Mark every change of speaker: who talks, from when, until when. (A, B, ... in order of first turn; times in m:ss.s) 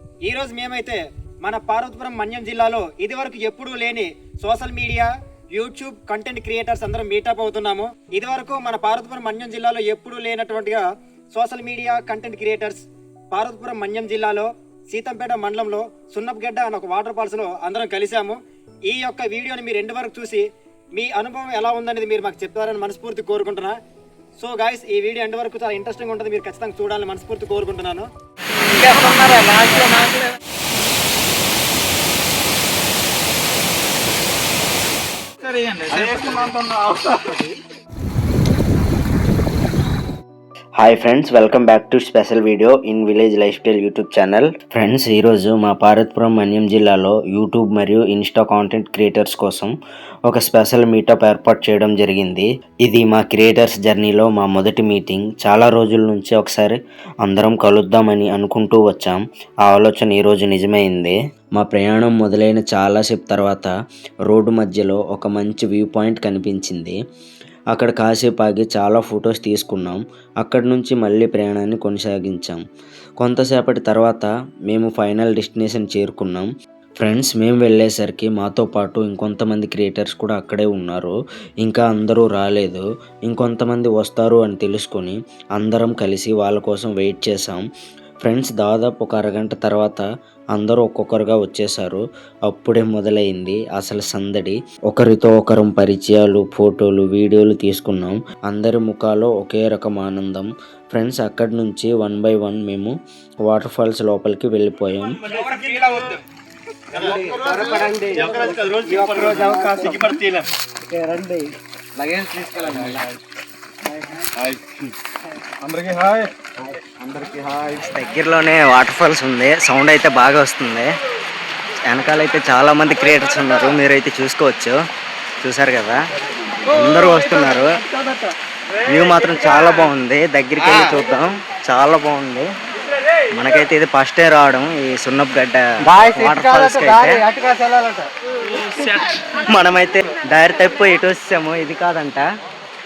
0:00.3-0:20.4 A
0:21.0-0:23.8 A
0:24.4-0:28.1 A
0:28.6-0:30.3 A
0:35.4-0:37.2 B
0:36.0-0:36.4 A
0:40.8-0:49.7 C
0:50.3-1:03.7 C
1:04.3-1:07.0 C
1:07.7-1:12.6 C
1:13.2-1:16.5 C
1:17.0-1:27.6 C
1:28.2-1:45.2 C
1:45.4-1:46.2 B
1:46.9-1:50.4 A
1:46.9-1:53.0 B
1:55.6-1:56.3 B
1:56.9-1:57.8 B
1:57.7-2:00.9 C
2:01.8-2:04.8 C
2:05.4-2:06.0 C
2:06.6-2:07.8 C
2:08.9-2:12.5 C
2:13.3-2:17.2 C
2:16.0-2:18.1 B
2:18.8-2:22.3 C